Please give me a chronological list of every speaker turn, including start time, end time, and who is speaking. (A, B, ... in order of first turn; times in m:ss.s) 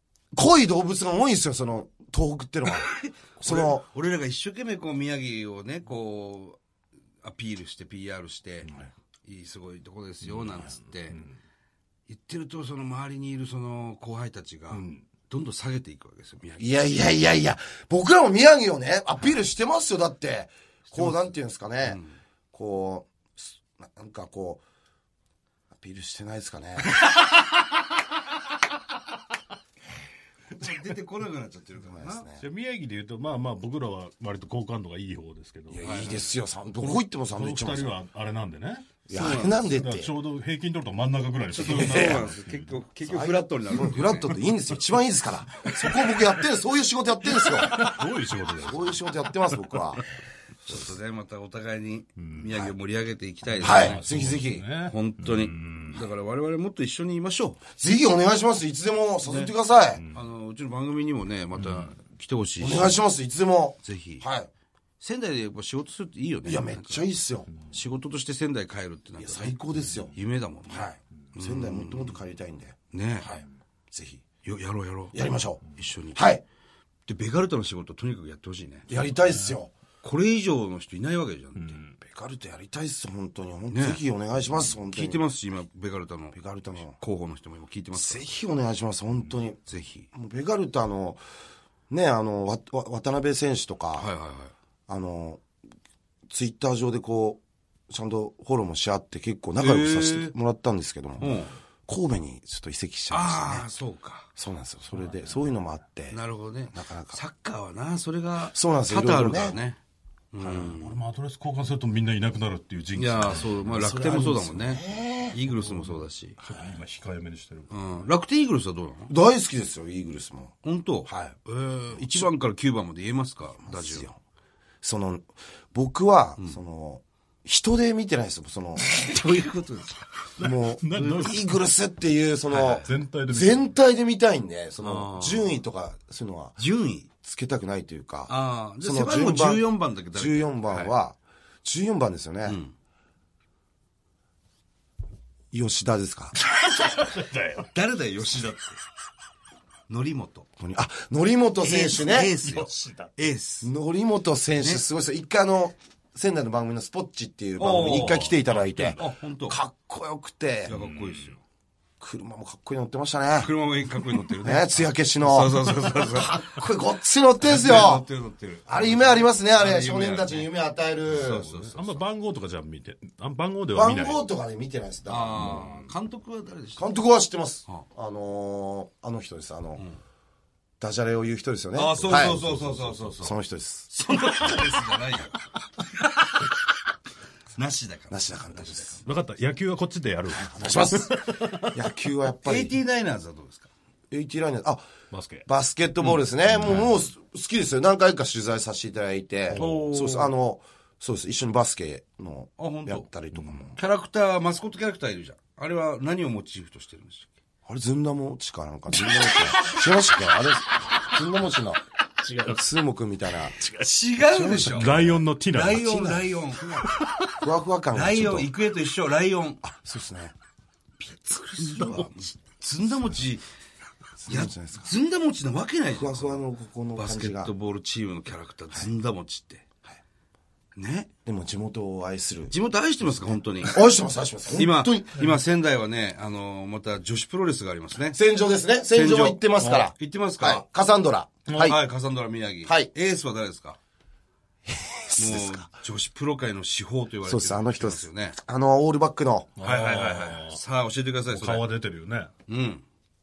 0:00.3-0:03.8 A
0:02.7-0:06.6 B
0:07.2-0:11.2 B
0:10.2-0:11.3 C
0:12.1-0:16.9 B
0:14.7-0:15.0 C
0:16.6-0:22.0 A
0:21.8-0:22.2 B
0:22.5-0:24.6 A
0:25.7-0:27.0 A
0:30.5-0:32.2 B
0:31.8-0:32.4 A
0:32.4-0:36.2 C
0:35.7-0:38.0 A
0:35.8-0:36.2 B
0:36.8-0:42.8 C
0:39.1-0:40.1 A
0:39.1-0:39.6 B
0:41.5-0:42.3 A
0:41.5-0:44.4 B
0:43.1-0:47.9 A
0:45.7-0:46.2 C
0:47.3-0:49.1 C
0:48.6-0:50.0 A
0:50.6-0:54.0 B
0:52.2-0:52.7 C
0:53.6-0:56.0 C
0:53.6-0:54.7 A
0:54.8-0:57.6 B
0:57.8-1:00.0 A
0:59.2-0:59.5 B
1:00.1-1:03.0 B
1:01.6-1:01.9 C
1:02.6-1:04.5 A
1:03.8-1:04.2 B
1:05.0-1:07.0 B
1:06.5-1:07.5 A
1:07.6-1:12.2 B
1:09.2-1:10.1 A
1:10.7-1:14.2 A
1:12.9-1:13.3 B
1:14.4-1:15.2 B
1:15.1-1:15.6 A
1:15.7-1:16.3 B
1:16.1-1:16.4 A
1:17.1-1:18.9 B
1:18.9-1:19.7 A
1:19.3-1:19.6 C
1:20.0-1:21.8 B
1:21.6-1:21.9 C
1:22.0-1:25.2 A
1:23.7-1:24.0 B
1:24.8-1:28.4 B
1:26.3-1:27.0 A
1:27.9-1:29.6 A
1:29.7-1:30.1 B
1:30.1-1:31.2 A
1:31.9-1:34.1 A
1:34.0-1:34.5 B
1:34.9-1:35.5 A
1:36.3-1:41.3 A
1:39.6-1:40.3 B
1:41.2-1:41.5 B
1:41.8-1:43.7 A
1:43.1-1:44.3 B
1:44.4-1:46.2 A
1:46.1-1:49.8 B
1:46.7-1:47.2 A
1:48.5-1:49.6 A
1:50.3-1:51.0 B
1:50.4-1:53.7 C
1:53.0-1:56.4 B
1:53.6-1:55.4 A
1:55.5-1:57.9 C
1:57.7-1:59.1 B
1:59.1-2:01.4 A
2:00.6-2:04.1 B
2:03.6-2:04.2 A
2:04.8-2:08.8 A
2:08.8-2:10.0 B
2:10.4-2:11.6 C
2:10.4-2:16.6 A
2:12.5-2:12.9 B
2:12.8-2:13.7 C
2:14.8-2:15.5 B
2:16.6-2:17.1 B
2:17.2-2:22.6 A
2:18.3-2:20.9 B
2:22.4-2:22.7 B
2:25.5-2:26.3 A
2:26.3-2:27.7 C
2:27.6-2:28.8 B
2:29.9-2:30.5 B
2:30.6-2:32.4 A
2:31.6-2:33.7 B
2:32.4-2:33.1 C
2:33.6-2:40.8 A
2:34.6-2:34.8 B
2:37.6-2:38.3 B
2:37.8-2:39.0 C
2:38.9-2:39.6 B
2:40.6-2:41.4 B
2:40.7-2:41.3 C
2:42.0-2:43.5 A
2:43.4-2:46.4 B
2:44.4-2:48.0 A
2:47.4-2:50.5 B
2:48.6-2:51.4 A
2:51.1-2:52.0 B
2:51.1-2:54.2 C
2:53.7-2:55.7 A
2:55.0-2:56.9 B
2:55.4-2:55.9 C
2:56.8-2:59.8 A
3:00.8-3:02.4 A
3:01.7-3:03.4 B
3:02.0-3:03.1 C
3:03.2-3:03.9 A
3:03.9-3:05.5 B
3:06.2-3:06.5 B
3:07.5-3:09.0 B
3:08.1-3:09.0 A
3:09.0-3:11.8 C
3:10.3-3:12.8 A
3:12.4-3:13.7 B
3:14.1-3:14.8 A
3:15.1-3:15.5 C
3:15.4-3:23.8 A
3:16.5-3:16.9 C
3:19.5-3:19.9 C
3:19.5-3:20.3 B
3:22.6-3:23.1 B
3:23.3-3:23.6 C
3:23.8-3:27.3 B
3:27.6-3:31.8 A
3:29.0-3:30.4 C
3:32.2-3:32.6 C
3:32.4-3:33.6 A
3:33.6-3:34.0 C
3:33.8-3:34.9 B
3:34.3-3:35.2 A
3:34.5-3:36.0 C
3:35.5-3:36.9 B
3:35.8-3:36.3 A
3:36.8-3:37.3 C
3:37.4-3:38.5 A
3:37.9-3:39.6 B
3:39.6-3:40.3 A
3:41.0-3:43.4 B
3:41.6-3:42.1 C
3:44.2-3:44.9 A
3:44.3-3:46.4 B
3:46.0-3:47.5 A
3:47.0-3:49.6 B
3:50.8-3:51.1 B
3:51.2-3:52.5 A
3:52.5-3:53.8 B
3:53.6-3:55.1 A
3:54.5-3:58.2 B
3:58.1-4:01.8 A
3:58.9-4:00.6 B
3:59.6-3:59.9 C
4:01.5-4:01.7 C
4:01.5-4:03.8 B
4:02.6-4:02.9 A
4:04.7-4:05.6 A
4:05.2-4:08.4 B
4:07.2-4:09.5 A
4:09.6-4:10.6 C
4:09.6-4:11.7 B
4:11.3-4:12.3 C
4:12.5-4:12.8 B